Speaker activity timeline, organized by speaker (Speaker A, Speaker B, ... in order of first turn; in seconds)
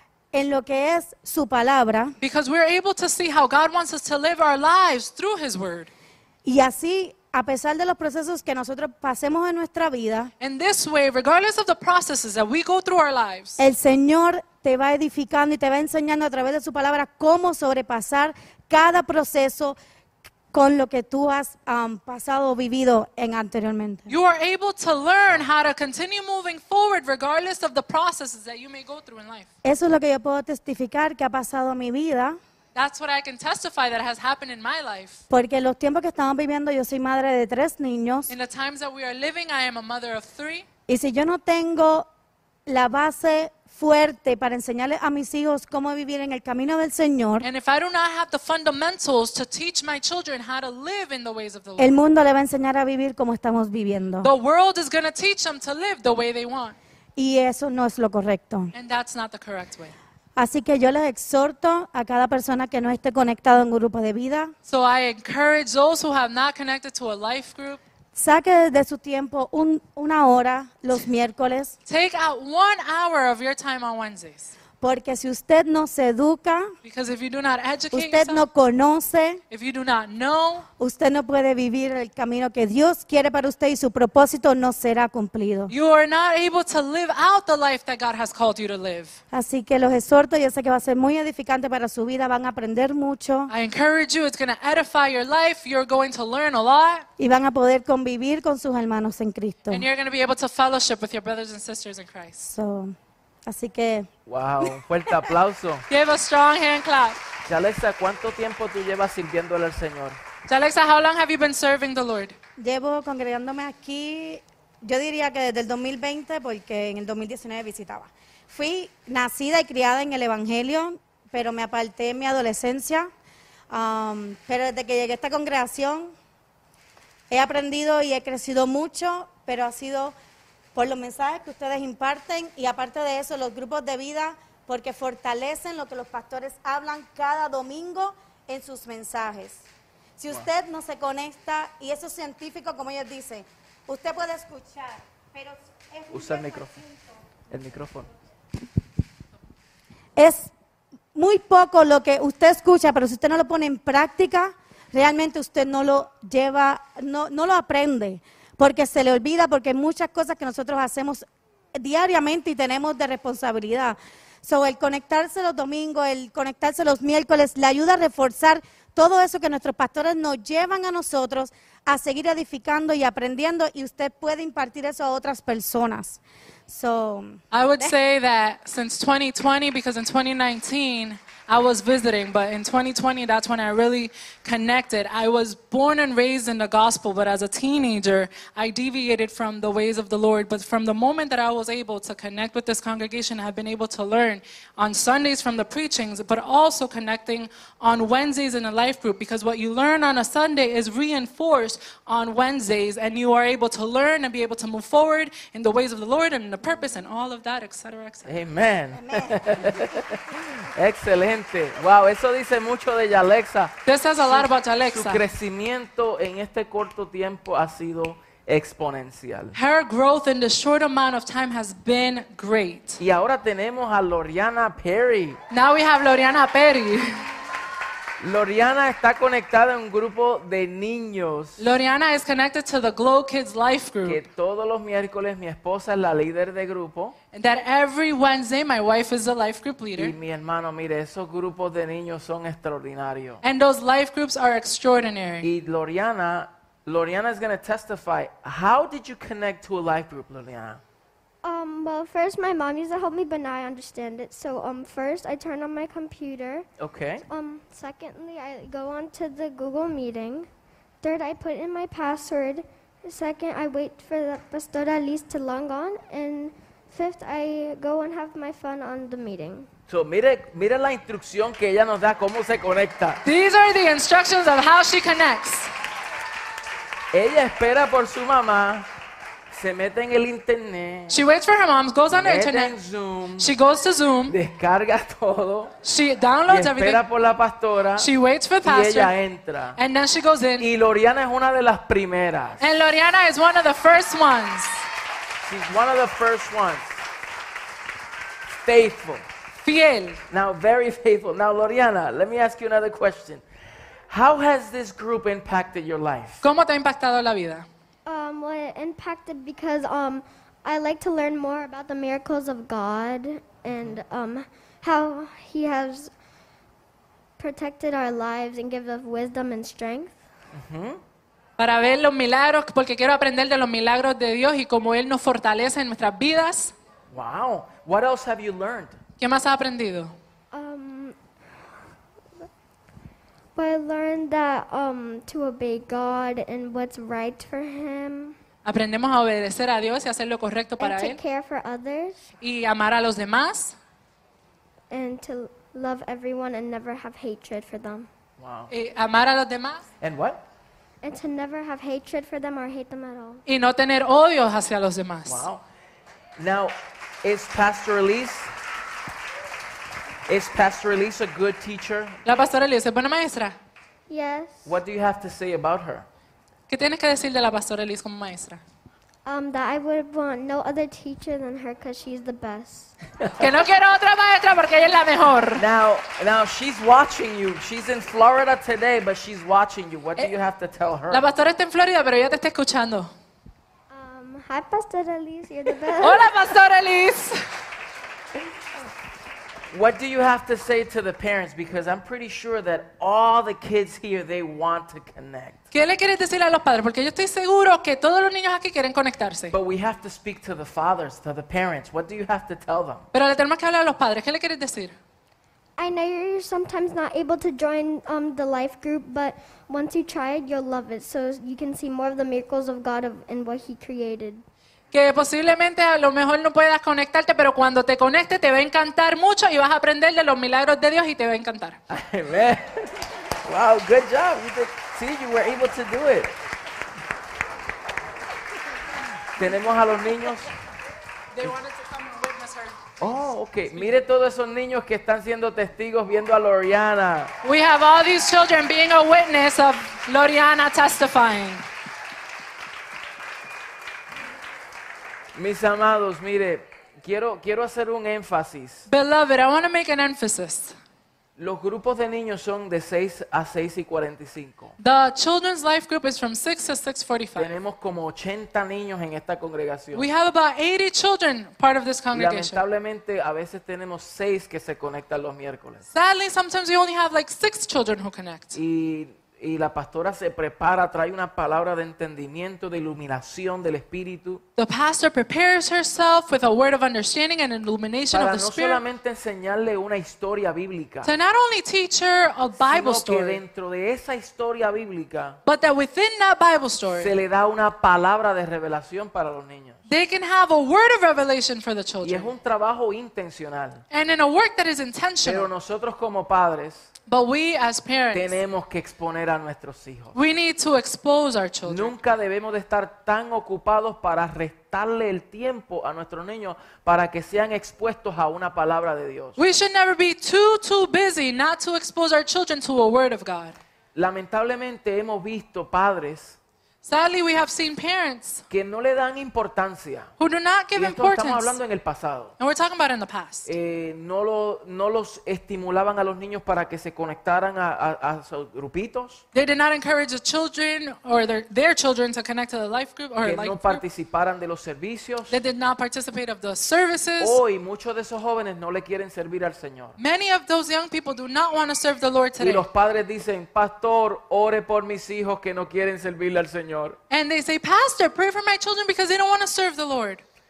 Speaker A: 0.3-2.1, 6.5-10.3, 13.6-19.8, 20.5-24.1, 29.6-32.4, 35.3-38.3, 40.9-42.1, 42.7-47.5, 51.8-54.3, 57.2-58.7, 60.4-64.5, 68.2-71.8, 74.8-76.7, 77.9-79.4, 80.8-85.7, 89.3-93.5, 97.2-99.9, 102.5-104.1, 112.6-123.1, 123.7-126.2, 127.3-130.2, 130.8-147.1, 150.2-150.5, 151.1-177.4, 208.9-209.8
Speaker B: 2.2-5.9, 10.4-13.6, 24.1-29.5, 32.8-35.2, 38.3-40.7, 47.4-52.0, 54.2-56.8, 58.7-60.0, 64.7-67.8, 71.9-74.5, 76.8-78.5, 79.5-80.7, 85.7-89.2, 93.5-97.1, 99.7-102.5, 105.9-107.2, 110.5-112.4, 177.5-208.3, 213.9-215.2, 219.6-223.0, 225.5-227.3, 231.6-234.2, 237.3-240.2, 243.4-245.5, 273.2-275.7, 281.1-282.8, 283.4-284.4, 285.8-287.0, 288.0-289.1, 289.8-290.7, 292.6-294.9, 299.6-300.2, 306.4-307.7, 321.6-326.7, 329.2-330.1, 338.6-341.2, 342.4-343.8, 348.7-349.9, 353.5-355.5, 362.2-363.6, 366.7-368.6, 373.4-375.6, 381.1-383.1, 386.0-387.4, 395.7-399.5, 403.1-404.9, 414.9-421.8, 431.3-433.2, 437.4-441.6, 448.9-450.8, 454.8-457.5, 459.9-462.6, 465.9-468.6, 474.6-478.8, 481.0-483.4, 485.5-487.1, 489.9-492.3, 493.9-495.5, 497.1-498.4, 500.1-501.9, 509.4-513.6, 516.8-518.4, 520.2-521.6, 522.4-523.5, 529.3-533.8, 535.3-537.4, 540.0-542.6, 547.1-550.2
Speaker C: 104.3-105.9, 107.5-110.2, 146.1-146.8, 147.5-148.1, 208.2-219.6, 223.0-225.4, 228.2-231.6, 234.1-237.2, 240.0-243.4, 245.4-250.8, 256.8-257.2, 269.9-273.2, 277.1-278.9, 279.5-281.2, 282.1-283.5, 284.3-285.7, 286.5-288.1, 288.6-289.8, 290.6-292.7, 295.4-297.0, 298.5-299.3, 300.3-303.4, 304.1-306.4, 320.5-321.0, 327.1-329.0, 348.4-348.7, 350.0-350.4, 355.3-355.6, 356.4-358.5, 360.3-362.2, 364.6-366.1, 375.6-381.2, 389.7-395.6, 399.5-403.1, 421.9-426.4, 429.4-430.5, 433.0-437.3, 445.4-448.9, 451.4-454.8, 457.4-460.1, 462.1-465.9, 468.5-474.4, 478.1-481.1, 482.6-485.4, 486.9-489.8, 492.0-493.8, 495.2-496.9, 498.1-500.1, 501.6-509.4, 514.0-516.4, 518.5-520.1, 520.8-522.3, 523.5-529.2, 533.2-535.4, 537.2-540.0, 542.4-547.0
Speaker D: 251.4-256.7, 257.3-260.5, 261.0-269.7, 308.1-316.1, 317.4-320.2, 330.5-331.2, 333.6-338.4, 340.8-342.2, 344.9-348.1, 351.0-353.4, 364.1-364.7, 369.3-372.9, 383.9-386.3, 405.8-414.4